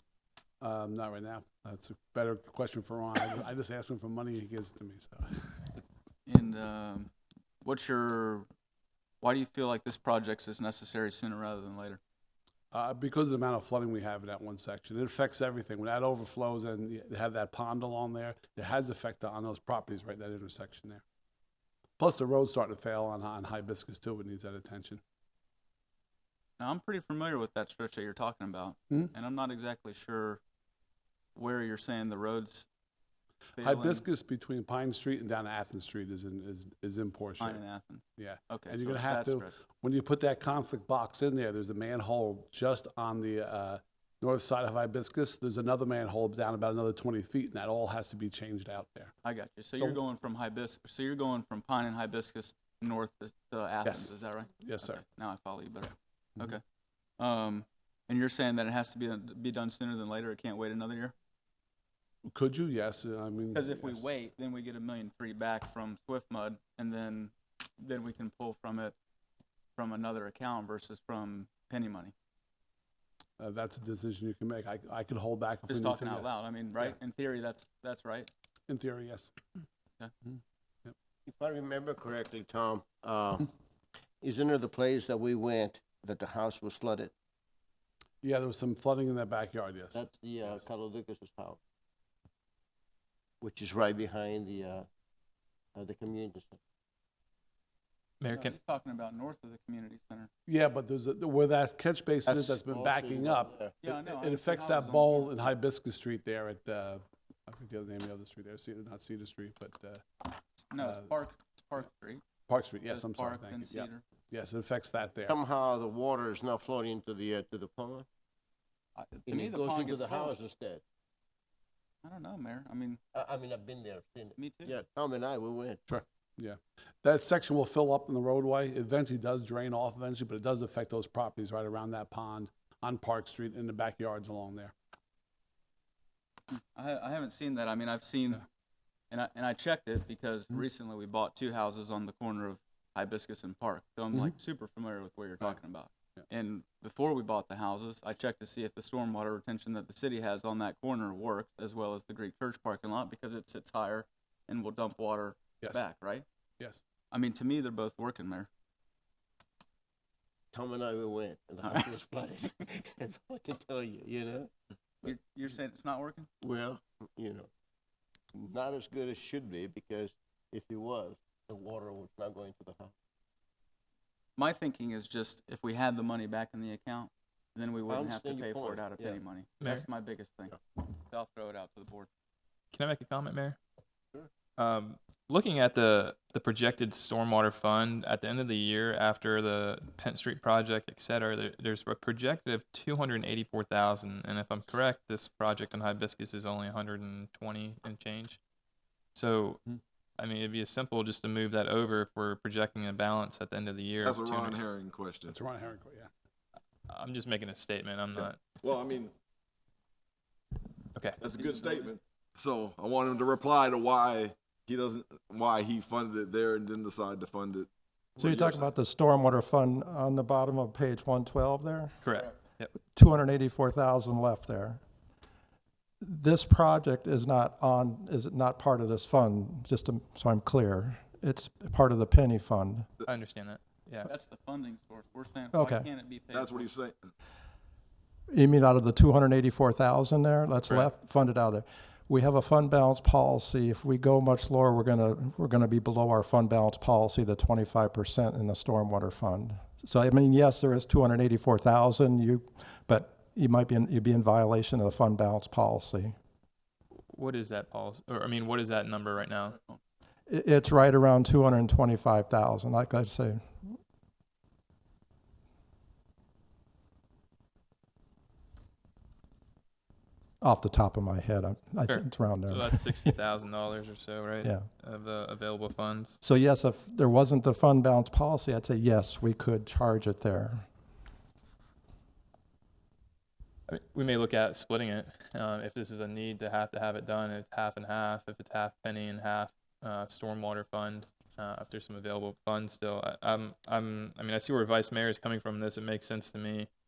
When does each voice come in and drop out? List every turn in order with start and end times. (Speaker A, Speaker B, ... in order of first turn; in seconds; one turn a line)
Speaker A: 0.6-5.8
Speaker B: 6.2-7.1
Speaker B: 7.6-8.5
Speaker B: 9.2-12.0
Speaker A: 12.7-21.0
Speaker A: 22.0-25.0
Speaker B: 26.6-30.4
Speaker B: 31.3-32.7
Speaker B: 33.6-34.0
Speaker A: 33.6-37.6
Speaker B: 37.4-39.5
Speaker A: 38.2-49.1
Speaker B: 49.2-56.6
Speaker A: 49.7-50.0
Speaker A: 53.8-55.0
Speaker B: 57.2-61.1
Speaker A: 62.3-64.0
Speaker B: 63.5-68.9
Speaker B: 69.8-72.1
Speaker A: 73.4-76.9
Speaker B: 75.7-78.3
Speaker A: 78.7-79.3
Speaker C: 81.3-83.5
Speaker C: 84.2-87.1
Speaker A: 88.2-90.5
Speaker C: 89.9-91.6
Speaker C: 93.4-94.9
Speaker C: 95.7-96.6
Speaker D: 98.2-98.6
Speaker B: 98.3-100.3
Speaker A: 100.5-110.2
Speaker C: 102.3-103.8
Speaker B: 103.8-105.3
Speaker B: 110.7-112.2
Speaker A: 110.8-111.1
Speaker A: 112.5-115.4
Speaker B: 112.9-114.0
Speaker C: 115.3-118.0
Speaker B: 119.0-120.3
Speaker C: 119.3-120.8
Speaker B: 122.0-123.0
Speaker C: 123.1-125.8
Speaker B: 124.4-124.8
Speaker A: 125.9-134.7
Speaker B: 136.7-138.4
Speaker B: 139.1-156.2
Speaker B: 157.1-158.5
Speaker C: 160.5-164.5
Speaker B: 165.0-166.3
Speaker C: 166.4-167.5
Speaker C: 168.3-172.9
Speaker B: 174.4-182.1
Speaker C: 177.9-179.2
Speaker D: 182.7-183.6
Speaker D: 184.6-198.4
Speaker D: 199.1-199.6
Speaker D: 200.2-204.6
Speaker E: 204.0-205.4
Speaker A: 205.3-206.1
Speaker D: 206.9-208.4
Speaker E: 208.2-209.1
Speaker D: 210.9-211.2
Speaker E: 211.2-218.7
Speaker B: 211.5-211.8
Speaker F: 218.2-221.9
Speaker D: 222.0-222.7
Speaker F: 222.9-224.8
Speaker F: 226.0-232.9
Speaker D: 233.0-234.1
Speaker B: 234.1-236.7
Speaker F: 235.5-235.9
Speaker E: 236.3-237.1
Speaker F: 238.3-256.1
Speaker D: 257.1-259.6
Speaker F: 260.3-263.7
Speaker F: 270.4-273.1
Speaker D: 271.9-276.2
Speaker F: 276.2-280.6
Speaker D: 283.7-296.7